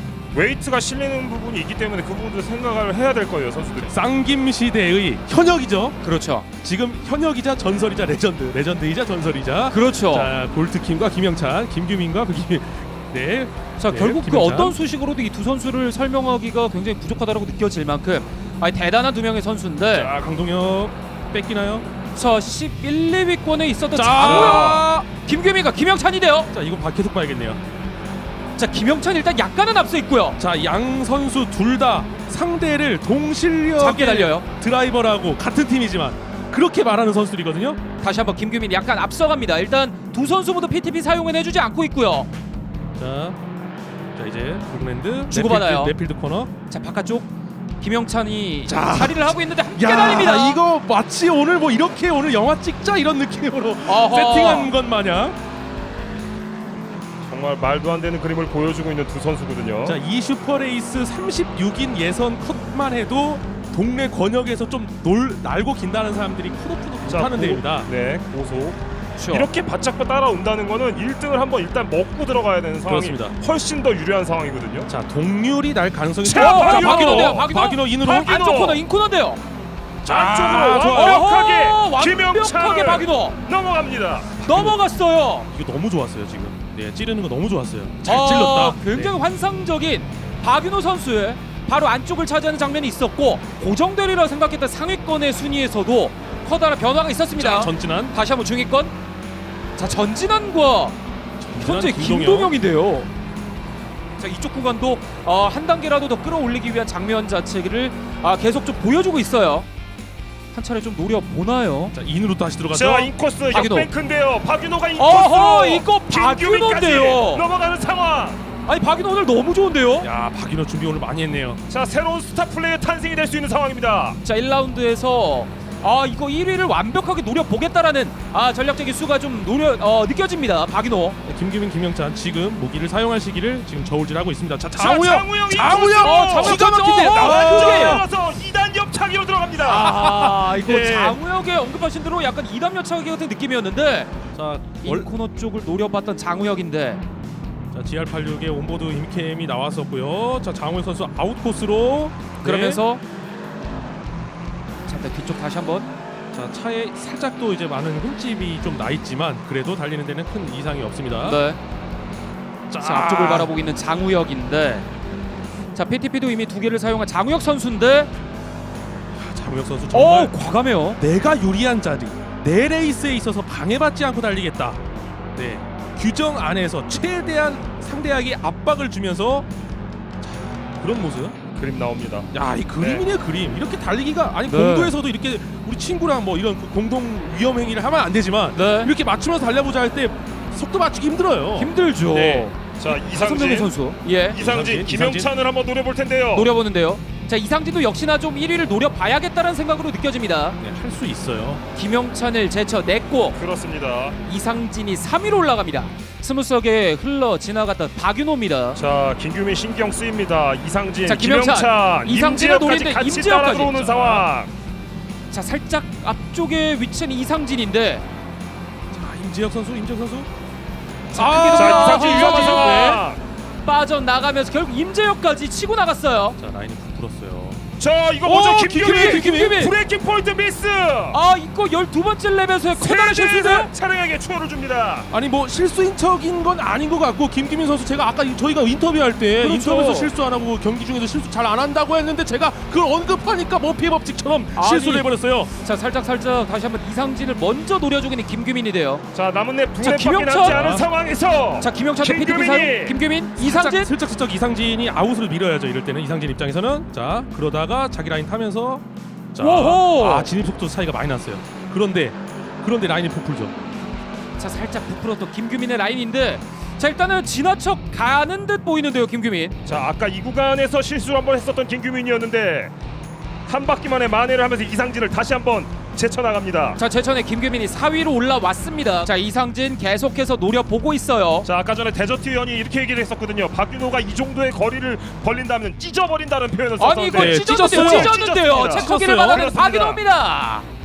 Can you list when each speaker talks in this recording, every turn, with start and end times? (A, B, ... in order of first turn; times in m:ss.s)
0:00.3-0:03.9 A
0:03.8-0:06.0 B
0:06.0-0:06.5 C
0:06.6-0:14.8 B
0:09.7-0:10.3 C
0:13.8-0:20.1 C
0:19.9-0:21.9 B
0:22.1-0:26.5 C
0:24.0-0:25.1 B
0:24.2-0:24.8 A
0:26.5-0:27.6 B
0:28.6-0:30.4 C
0:30.4-0:37.8 B
0:33.8-0:34.5 C
0:38.0-0:42.3 C
0:43.0-0:43.4 B
0:44.2-0:46.5 B
0:45.3-0:46.0 C
0:46.7-0:50.6 C
0:48.7-0:55.4 B
0:53.9-0:54.7 C
0:57.2-1:00.0 A
0:59.9-1:07.9 B
1:07.0-1:08.8 A
1:09.2-1:09.5 C
1:09.3-1:14.9 A
1:12.9-1:13.3 B
1:14.9-1:18.3 B
1:16.2-1:17.5 A
1:16.3-1:19.4 C
1:18.2-1:18.8 A
1:20.0-1:21.2 B
1:20.0-1:24.4 A
1:20.8-1:23.4 C
1:24.4-1:24.8 B
1:24.4-1:25.5 C
1:25.5-1:29.1 B
1:28.0-1:38.9 C
1:37.4-1:38.2 B
1:39.8-1:41.0 C
1:41.4-1:42.6 B
1:41.6-1:43.1 C
1:44.2-1:49.7 C
1:50.5-1:52.0 C
1:51.9-1:53.1 B
1:52.7-1:58.4 A
1:53.5-1:53.9 C
1:55.0-1:57.4 C
1:58.7-2:00.1 C
2:00.0-2:01.6 B
2:01.7-2:04.2 A
2:04.2-2:11.2 C
2:11.3-2:18.0 B
2:14.7-2:19.9 A
2:16.0-2:18.0 C
2:19.6-2:24.1 C
2:19.7-2:21.2 B
2:24.3-2:25.1 B
2:24.8-2:27.0 C
2:27.7-2:32.8 B
2:32.4-2:33.0 C
2:34.9-2:35.9 C
2:36.3-2:41.4 B
2:41.2-2:41.6 C
2:42.7-2:43.5 B
2:42.8-2:44.9 C
2:45.8-2:48.1 C
2:49.1-2:50.4 B
2:49.9-2:51.0 C
2:51.0-2:54.8 B
2:55.4-2:59.5 B
3:00.2-3:01.4 B
3:01.6-3:03.1 A
3:02.3-3:11.7 B
3:04.5-3:05.0 C
3:08.6-3:08.9 C
3:11.6-3:14.4 C
3:12.1-3:13.7 A
3:14.3-3:16.5 A
3:14.4-3:15.3 B
3:16.3-3:20.6 C
3:20.6-3:21.6 B
3:21.7-3:23.4 C
3:23.4-3:24.2 A
3:24.2-3:28.8 C
3:28.8-3:34.5 A
3:31.1-3:34.3 C
3:35.3-3:38.0 C
3:38.9-3:40.3 B
3:41.1-3:43.0 B
3:41.1-3:43.0 C
3:41.6-3:43.2 A
3:43.6-3:46.4 C
3:46.4-3:47.6 B
3:47.8-3:51.2 A
3:48.2-3:49.6 B
3:48.3-3:49.8 C
3:51.1-3:53.7 C
3:52.8-3:55.1 A
3:55.1-4:05.5 B
3:59.4-4:00.1 C
4:04.6-4:09.1 C
4:09.1-4:13.0 A
4:09.8-4:10.7 C
4:10.4-4:10.9 B
4:11.6-4:13.9 C
4:13.4-4:23.5 B
4:19.4-4:20.3 C
4:24.4-4:29.6 C
4:29.7-4:32.7 A
4:33.5-4:36.8 A
4:36.8-4:41.5 C
4:41.4-4:50.0 A
4:46.8-4:50.7 C
4:47.1-4:49.5 B